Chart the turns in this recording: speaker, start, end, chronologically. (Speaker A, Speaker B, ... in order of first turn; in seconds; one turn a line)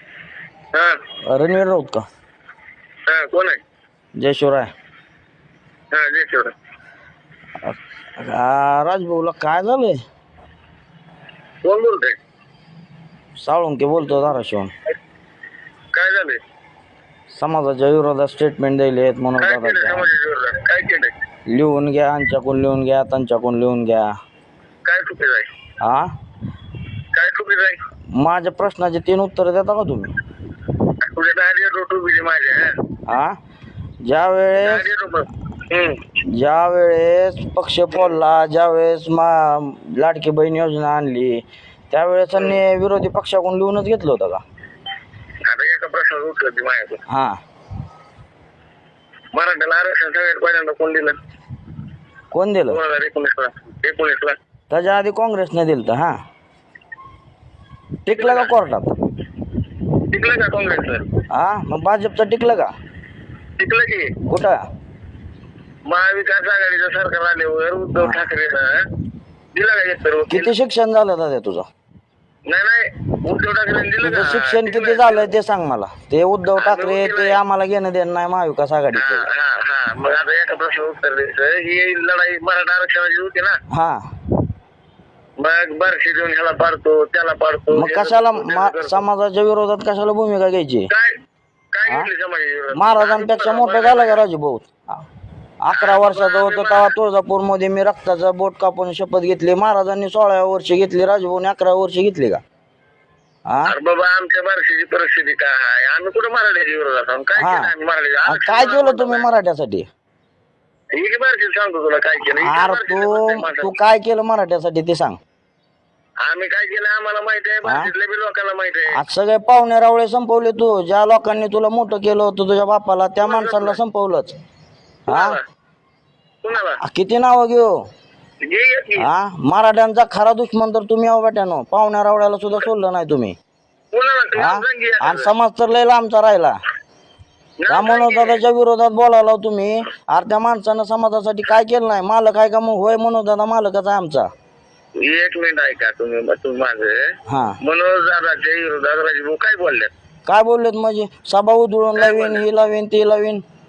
Speaker A: 0.7-1.0
Speaker B: 1.2-2.0
Speaker A: 3.0-3.6
Speaker B: 4.2-4.7
Speaker A: 5.9-6.5
Speaker B: 7.6-10.0
Speaker A: 11.6-12.2
Speaker B: 13.4-14.7
Speaker A: 15.9-16.4
Speaker B: 17.3-20.1
Speaker A: 19.4-21.1
Speaker B: 21.5-24.1
Speaker A: 24.8-25.5
Speaker B: 25.8-26.1
Speaker A: 27.1-27.8
Speaker B: 28.1-30.1
Speaker A: 31.0-32.8
Speaker B: 33.1-33.4
Speaker B: 34.0-34.9
Speaker A: 34.6-36.0
Speaker B: 36.3-44.4
Speaker A: 42.4-42.6
Speaker A: 45.4-47.0
Speaker B: 47.1-47.4
Speaker A: 49.3-51.2
Speaker B: 52.3-52.8
Speaker A: 52.7-54.4
Speaker B: 54.7-56.2
Speaker B: 58.0-58.9
Speaker A: 58.1-58.5
Speaker A: 60.1-61.0
Speaker B: 61.3-62.7
Speaker A: 63.6-64.1
Speaker B: 64.3-64.6
Speaker A: 65.9-68.9
Speaker B: 68.0-68.3
Speaker A: 69.5-70.5
Speaker B: 70.3-71.7
Speaker A: 72.5-75.3
Speaker B: 74.0-79.3
Speaker A: 76.5-77.4
Speaker A: 78.9-83.6
Speaker B: 83.7-84.0
Speaker A: 85.4-89.0
Speaker B: 87.7-90.9
Speaker A: 90.9-91.2
Speaker A: 91.7-94.2
Speaker B: 92.7-95.0
Speaker B: 95.6-102.4
Speaker A: 95.7-96.9
Speaker B: 103.5-103.7
Speaker A: 103.6-109.3
Speaker B: 107.4-107.7
Speaker B: 108.2-109.9
Speaker A: 110.9-113.7
Speaker B: 112.2-115.2
Speaker A: 116.2-119.0
Speaker B: 117.6-117.9
Speaker B: 118.9-124.3
Speaker A: 123.2-123.8
Speaker B: 125.1-125.4
Speaker A: 125.1-125.4
Speaker A: 126.4-126.8
Speaker B: 126.8-127.7
Speaker A: 128.4-129.1
Speaker B: 129.0-133.3
Speaker A: 133.9-135.3
Speaker B: 134.3-136.6
Speaker A: 137.6-138.4
Speaker B: 137.7-144.3
Speaker A: 145.0-149.9
Speaker B: 147.3-147.6
Speaker B: 150.2-153.4
Speaker A: 151.9-152.4